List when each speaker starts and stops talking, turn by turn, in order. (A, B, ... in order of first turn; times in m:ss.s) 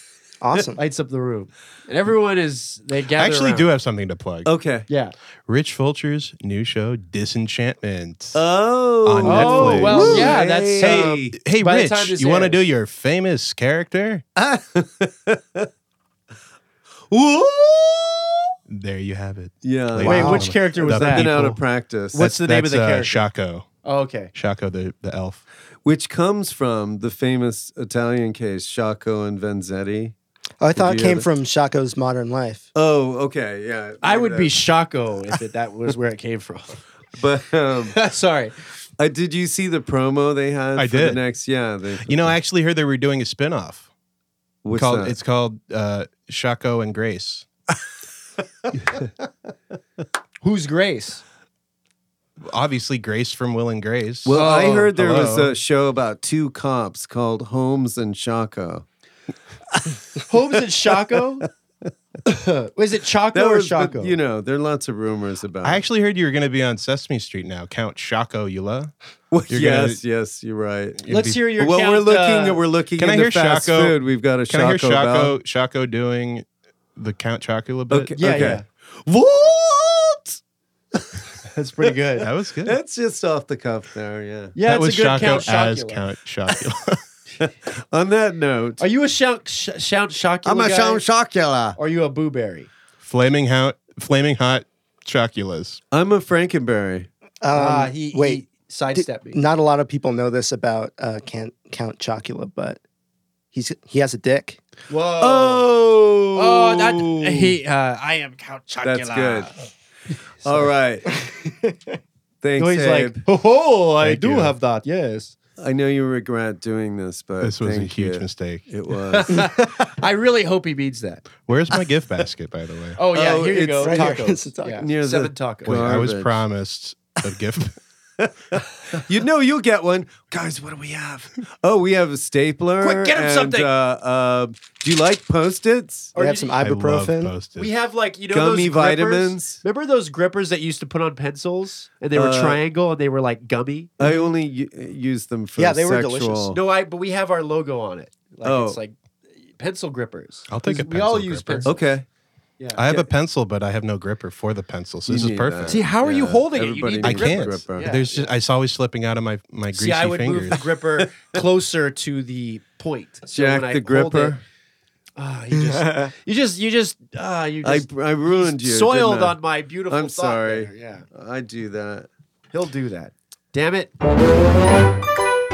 0:00.4-0:00.8 A
0:00.8-0:03.7 B
0:03.2-0:04.5 C
0:04.4-0:04.9 D
0:04.9-0:05.1 B
0:05.5-0:08.4 C
0:08.3-0:11.3 D
0:09.0-0:14.2 C
0:09.2-0:12.6 B
0:14.4-0:15.7 D
0:17.1-0:18.4 D
0:18.7-0:21.6 C
0:19.6-0:22.2 D
0:20.0-0:21.6 B
0:22.1-0:23.3 B
0:22.2-0:23.7 C
0:23.8-0:24.3 B
0:24.3-0:25.4 C
0:25.8-0:30.1 D
0:30.6-0:32.6 A
0:30.8-0:31.3 D
0:32.7-0:34.5 D
0:34.0-0:36.8 B
0:37.2-0:38.0 D
0:37.9-0:38.6 B
0:39.0-0:42.3 D
0:40.8-0:41.2 C
0:42.0-0:43.9 C
0:44.6-0:45.2 D
0:44.8-0:47.4 C
0:50.4-0:51.2 B
0:52.4-0:55.5 C
0:54.2-0:58.8 D
0:54.3-0:54.9 B
0:59.7-1:00.2 D
1:00.3-1:01.5 B
1:02.2-1:04.2 B
1:03.3-1:05.8 D
1:05.6-1:08.9 C
1:09.3-1:11.0 D
1:09.5-1:10.0 C
1:11.0-1:11.4 C
1:11.1-1:12.6 B
1:11.6-1:15.4 D
1:13.0-1:14.0 C
1:14.5-1:18.6 C
1:17.9-1:20.4 D
1:18.2-1:18.6 B
1:20.9-1:21.2 D
1:21.4-1:22.3 B
1:22.2-1:22.8 C
1:22.6-1:24.5 D
1:24.5-1:26.0 B
1:24.6-1:27.0 C
1:27.4-1:28.8 D
1:28.8-1:31.0 B
1:30.4-1:31.8 D
1:31.8-1:32.7 B
1:33.0-1:35.8 C
1:35.9-1:37.1 D
1:37.4-1:38.4 A
1:37.5-1:39.4 B
1:38.9-1:42.8 A
1:43.5-1:44.6 A
1:44.9-1:45.6 B
1:45.2-1:47.6 D
1:46.4-1:49.5 B
1:48.8-1:49.5 D
1:50.4-1:51.1 D
1:50.4-1:50.7 B
1:51.2-1:51.8 A
1:52.4-1:53.2 D
1:52.6-1:55.3 B
1:54.0-1:54.5 C
1:55.6-1:59.5 D
1:57.4-1:58.6 C
1:59.1-2:01.2 B
2:01.5-2:03.0 C
2:03.0-2:05.8 B
2:03.1-2:04.2 D
2:03.8-2:04.8 A
2:04.7-2:06.4 D
2:05.6-2:07.8 C
2:08.2-2:16.1 D
2:12.8-2:13.7 B
2:16.1-2:16.5 B
2:16.2-2:17.3 A
2:16.6-2:17.7 C
2:17.6-2:24.0 B
2:18.3-2:19.6 D
2:22.1-2:22.6 D
2:24.0-2:26.6 D
2:25.6-2:26.5 A
2:26.5-2:28.9 B
2:28.4-2:28.8 D
2:29.5-2:31.7 B
2:30.5-2:31.7 C
2:31.6-2:32.0 D
2:32.6-2:33.1 B
2:32.7-2:35.8 C
2:35.1-2:37.9 D
2:35.7-2:38.3 B
2:37.0-2:40.6 C
2:39.7-2:44.4 B
2:41.0-2:41.4 D
2:43.3-2:44.4 D
2:45.2-2:51.0 B
2:45.5-2:46.1 A
2:47.6-2:49.4 D
2:49.9-2:52.1 D
2:52.5-2:53.9 B